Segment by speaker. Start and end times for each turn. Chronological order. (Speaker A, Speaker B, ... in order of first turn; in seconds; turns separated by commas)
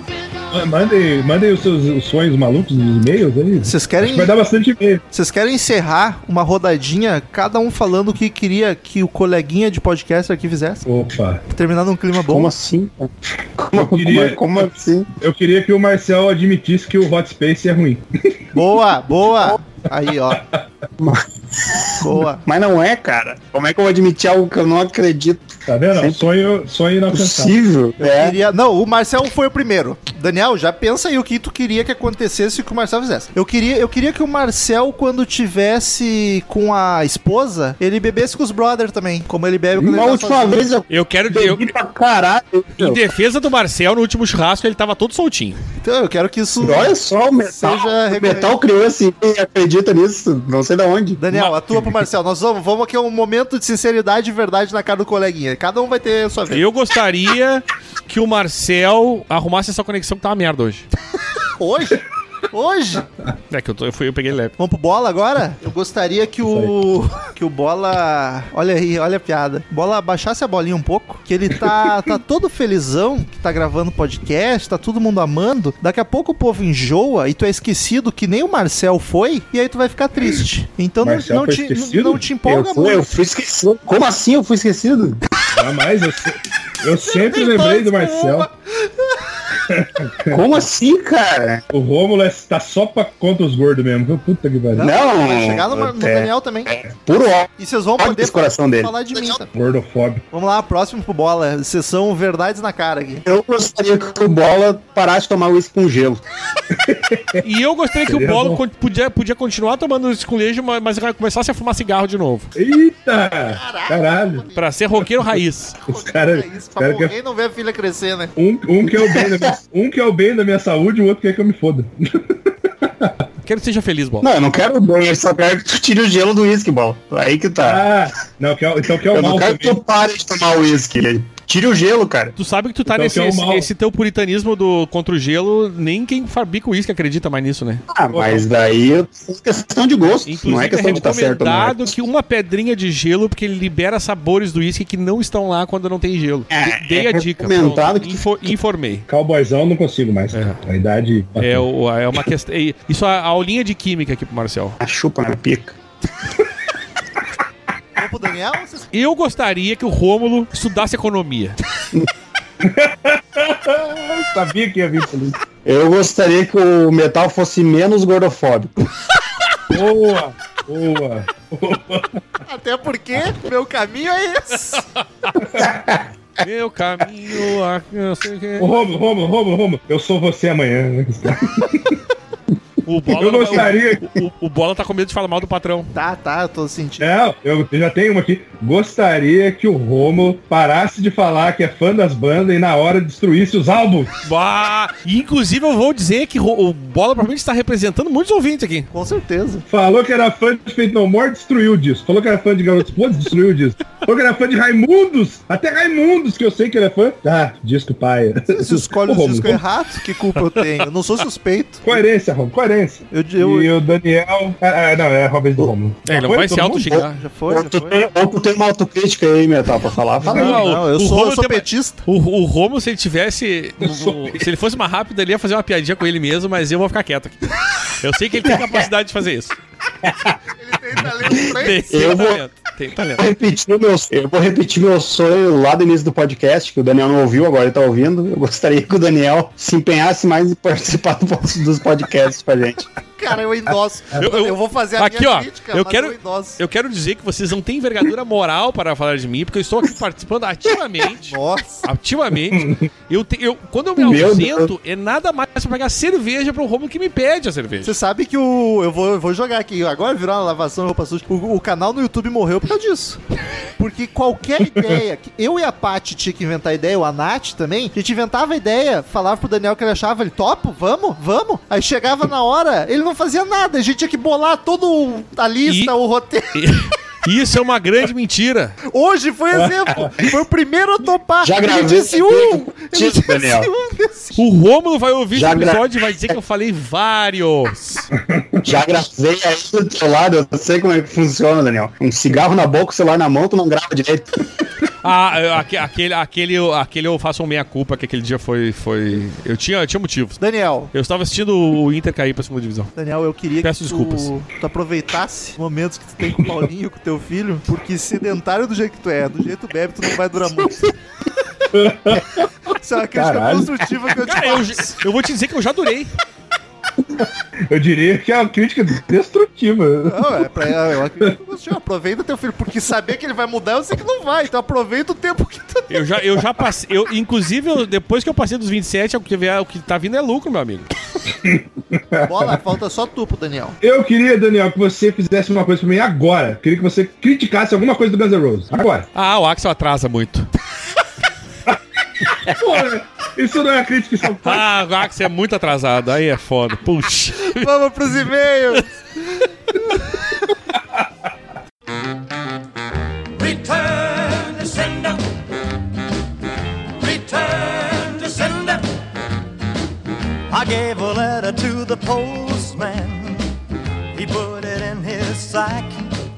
Speaker A: 0.5-5.0, Speaker B: 3.6-4.3, Speaker B: 5.1-10.8, Speaker A: 10.9-11.4, Speaker B: 11.5-12.5, Speaker C: 12.2-15.1, Speaker A: 13.7-14.7, Speaker A: 15.2-18.1, Speaker B: 18.6-20.4, Speaker C: 21.0-21.9, Speaker B: 22.0-22.4, Speaker C: 22.4-26.2, Speaker A: 25.7-27.6, Speaker C: 27.1-28.4, Speaker B: 28.0-40.7, Speaker C: 39.8-43.0, Speaker D: 40.9-41.7, Speaker D: 42.8-45.6, Speaker B: 45.8-47.0, Speaker C: 46.6-51.2, Speaker B: 47.5-48.6, Speaker B: 51.2-56.6, Speaker D: 51.3-51.8, Speaker D: 56.5-60.9, Speaker B: 61.6-63.1, Speaker D: 63.5-64.5, Speaker B: 64.6-83.1, Speaker A: 66.5-66.7, Speaker A: 81.0-82.2, Speaker C: 82.5-85.2, Speaker A: 85.5-88.5, Speaker B: 87.0-89.2, Speaker A: 89.7-90.5, Speaker C: 90.3-91.6, Speaker A: 91.7-94.9, Speaker B: 94.8-96.7, Speaker C: 94.8-98.9, Speaker B: 97.6-99.5, Speaker A: 99.5-100.2, Speaker B: 100.3-103.2, Speaker C: 103.3-106.2, Speaker A: 106.7-107.5, Speaker D: 107.4-112.5, Speaker A: 108.1-108.6, Speaker A: 112.5-114.4, Speaker B: 113.5-114.7, Speaker D: 114.5-115.8, Speaker A: 115.0-117.1, Speaker B: 115.8-118.3, Speaker A: 118.4-123.2, Speaker C: 118.9-119.5, Speaker D: 123.5-124.3, Speaker C: 124.2-127.9, Speaker A: 127.6-129.8, Speaker C: 129.1-132.3, Speaker D: 132.4-137.8, Speaker A: 132.9-133.7, Speaker C: 137.9-141.9, Speaker A: 138.1-138.5, Speaker D: 140.3-149.1, Speaker C: 146.5-148.3, Speaker A: 149.1-151.7, Speaker D: 150.3-150.6, Speaker D: 151.4-154.8, Speaker C: 154.8-155.8, Speaker B: 158.0-158.9, Speaker D: 158.9-161.6, Speaker A: 162.6-165.4, Speaker C: 165.7-168.7, Speaker A: 169.7-172.2, Speaker B: 172.5-174.8, Speaker D: 174.8-175.3, Speaker A: 175.5-175.8, Speaker C: 175.6-176.0, Speaker D: 176.4-178.7, Speaker A: 178.6-182.0, Speaker D: 182.8-185.9, Speaker A: 183.1-184.2, Speaker B: 185.9-187.1, Speaker A: 187.0-194.1, Speaker D: 194.2-198.9, Speaker B: 198.9-199.7, Speaker A: 199.7-209.6, Speaker B: 208.5-212.0, Speaker A: 211.8-216.9, Speaker B: 213.1-213.7, Speaker D: 216.1-217.2, Speaker C: 216.9-220.6, Speaker B: 217.2-218.0, Speaker B: 220.2-222.1, Speaker A: 220.3-220.6, Speaker D: 220.3-229.6, Speaker A: 223.8-224.5, Speaker C: 228.4-228.9, Speaker C: 230.0-230.4, Speaker B: 230.6-232.1, Speaker C: 231.3-232.4, Speaker D: 231.4-233.2, Speaker C: 233.2-242.8, Speaker B: 243.1-246.6, Speaker D: 244.2-257.9, Speaker B: 251.2-251.9, Speaker A: 252.5-252.9, Speaker C: 254.0-254.7, Speaker B: 257.8-263.2, Speaker B: 263.8-276.6, Speaker A: 264.7-265.0, Speaker D: 275.7-275.9, Speaker D: 276.5-278.8, Speaker B: 278.9-284.4, Speaker A: 279.5-280.1, Speaker C: 281.4-283.7, Speaker D: 284.4-288.1, Speaker C: 285.3-286.4, Speaker A: 288.1-288.7, Speaker C: 288.6-294.3, Speaker D: 295.0-300.4, Speaker B: 300.4-300.9, Speaker D: 300.9-302.9, Speaker B: 303.0-310.9, Speaker D: 303.6-304.3, Speaker A: 311.7-312.5, Speaker B: 312.8-315.0, Speaker A: 313.1-313.8, Speaker D: 314.3-316.1, Speaker A: 317.2-320.6, Speaker B: 320.1-326.1, Speaker D: 325.9-330.9, Speaker A: 331.4-332.6, Speaker B: 332.2-333.8, Speaker A: 333.8-339.1, Speaker D: 339.1-340.5, Speaker A: 342.4-344.7, Speaker D: 344.4-348.8, Speaker B: 347.4-348.9, Speaker B: 349.8-350.3, Speaker E: 353.4-355.2, Speaker E: 357.0-358.9, Speaker E: 360.5-363.4, Speaker E: 364.1-366.1